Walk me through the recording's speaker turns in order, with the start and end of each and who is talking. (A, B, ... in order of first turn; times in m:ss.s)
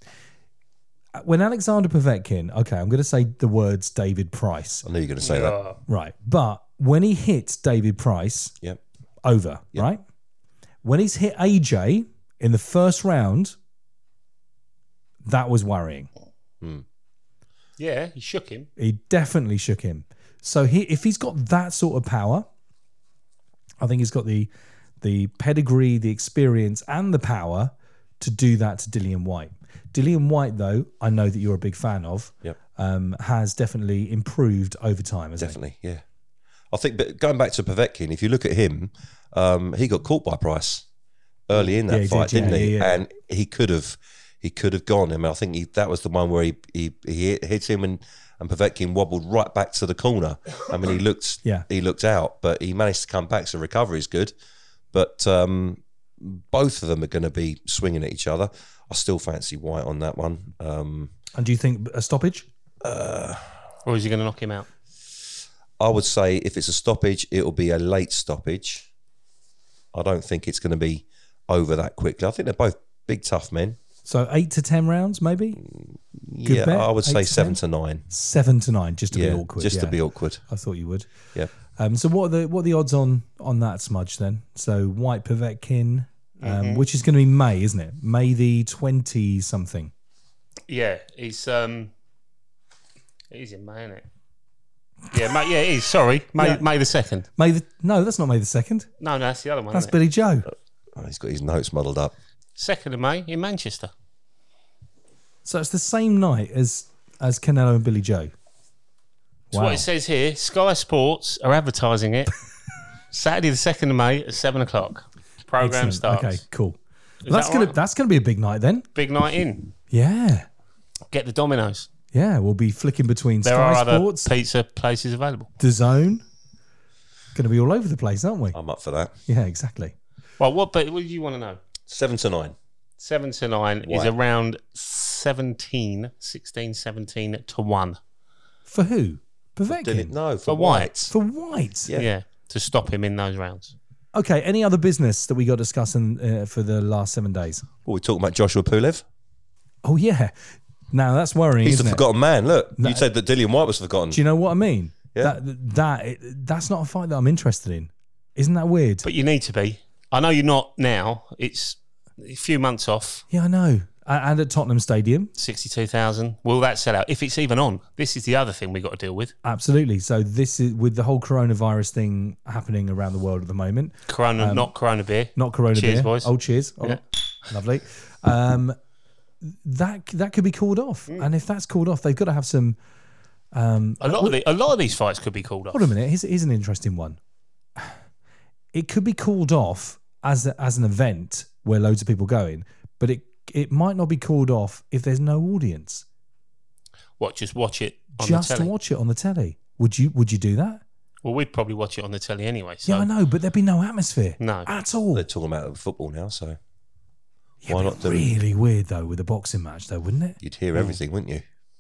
0:01.2-0:04.8 A
0:04.8-0:05.6 B
0:05.2-0:05.8 C
0:05.9-0:08.5 A
0:09.2-0:10.0 A
0:10.8-0:13.5 A
0:15.2-0:16.1 A
0:17.8-0:18.7 C
0:18.8-0:22.4 A
0:23.8-0:24.5 A
0:25.0-0:35.6 A
0:35.4-0:36.0 B
0:36.7-0:40.8 B
0:41.5-0:54.3 B
0:41.8-0:43.0 A
0:54.9-1:01.1 B
1:01.4-1:02.5 A
1:02.8-1:03.5 B
1:03.8-1:04.7 C
1:05.8-1:08.9 B
1:09.9-1:13.8 B
1:14.0-1:15.6 A
1:15.6-1:18.0 B
1:16.4-1:17.6 A
1:18.1-1:21.1 A
1:19.1-1:20.4 B
1:21.8-1:29.9 A
1:26.4-1:26.8 C
1:30.7-1:31.9 C
1:33.3-1:34.0 C
1:35.1-1:37.2 C
1:36.4-1:36.6 A
1:37.4-1:38.9 A
1:39.0-1:39.9 C
1:39.7-1:40.5 A
1:41.0-1:42.1 B
1:42.6-1:43.9 C
1:45.4-1:48.3 A
1:49.5-1:49.8 A
1:49.5-1:52.3 C
1:53.1-1:56.4 C
1:55.6-1:58.9 A
1:57.2-1:57.8 C
1:58.9-1:59.7 C
1:59.9-2:00.5 A
2:01.1-2:01.9 C
2:02.1-2:04.3 A
2:03.4-2:05.5 C
2:05.6-2:06.2 A
2:07.3-2:08.6 A
2:08.5-2:09.1 B
2:09.3-2:09.9 A
2:10.4-2:11.6 C
2:11.9-2:12.5 B
2:13.0-2:18.0 C
2:13.8-2:14.1 B
2:18.7-2:20.1 A
2:19.7-2:21.1 B
2:20.5-2:21.1 C
2:21.1-2:21.9 A
2:21.9-2:23.7 C
2:24.1-2:27.6 A
2:27.8-2:29.0 B
2:29.8-2:30.3 A
2:30.9-2:32.0 A
2:31.6-2:34.2 B
2:32.8-2:33.0 A
2:34.1-2:39.1 A
2:39.0-2:43.2 C
2:43.3-2:45.3 A
2:45.4-2:49.3 C
2:49.4-2:54.7 A
2:54.1-2:56.3 C
2:55.3-2:58.8 A
2:59.4-3:02.8 A
3:03.5-3:04.4 A
3:04.0-3:05.8 C
3:05.7-3:07.2 A
3:08.7-3:16.0 A
3:17.2-3:18.7 C
3:18.2-3:20.8 A
3:21.2-3:23.1 C
3:22.8-3:25.3 A
3:24.4-3:24.7 C
3:25.1-3:26.6 B
3:27.6-3:30.4 A
3:27.6-3:28.3 B
3:30.4-3:31.4 B